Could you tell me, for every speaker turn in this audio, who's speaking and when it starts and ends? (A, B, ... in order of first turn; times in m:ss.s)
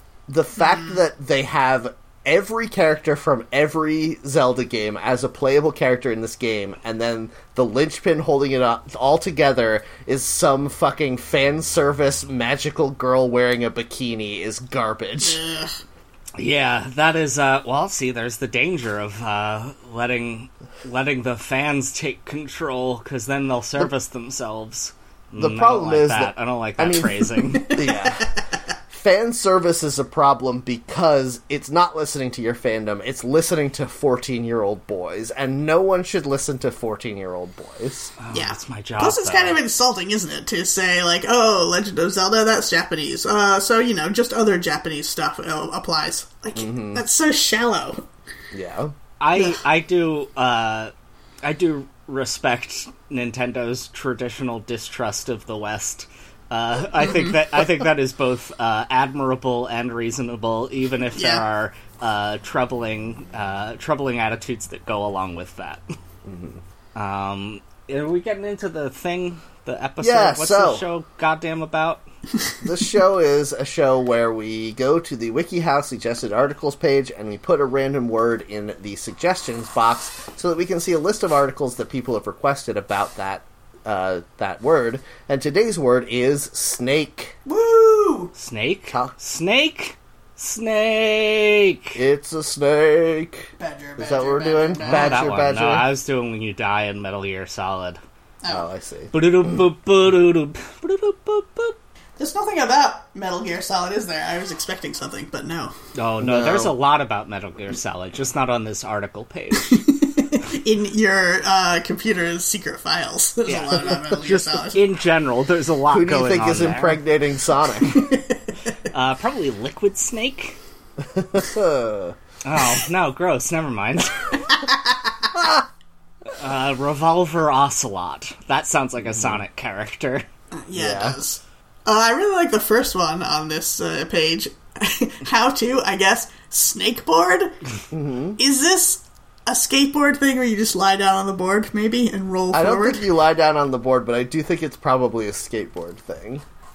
0:00.3-0:15.4 A
0:00.6-0:01.0 B
0:15.2-0:15.7 B
0:16.4-0:27.9 C
0:25.4-0:28.4 A
0:27.7-0:28.3 B
0:28.9-0:38.1 A
0:38.2-0:39.6 C
0:38.3-0:48.0 B
0:46.5-0:47.0 A
0:48.5-0:48.9 A
0:49.2-0:50.9 C
0:49.4-0:49.6 B
0:51.4-1:05.8 C
0:57.0-0:57.4 B
1:01.1-1:01.4 B
1:06.2-1:06.6 A
1:06.9-1:12.0 C
1:10.0-1:10.8 A
1:12.6-1:27.4 A
1:27.4-1:28.3 B
1:28.4-1:32.0 C
1:31.9-1:35.9 A
1:33.6-1:35.3 B
1:34.8-1:38.0 C
1:38.4-1:38.6 B
1:38.5-1:39.6 A
1:39.1-1:41.8 C
1:42.2-1:45.7 B
1:45.9-1:49.8 C
1:46.2-1:46.8 A
1:49.6-1:54.8 B
1:53.4-1:57.0 C
1:55.9-1:58.0 A
1:57.8-1:58.4 B
1:58.8-2:00.6 C
2:01.0-2:02.2 A
2:02.4-2:04.4 C
2:04.5-2:05.2 B
2:05.4-2:05.6 A
2:06.3-2:10.2 C
2:09.0-2:09.4 A
2:10.6-2:17.5 B
2:10.7-2:11.2 A
2:17.9-2:18.4 A
2:18.4-2:23.0 B
2:22.5-2:26.4 A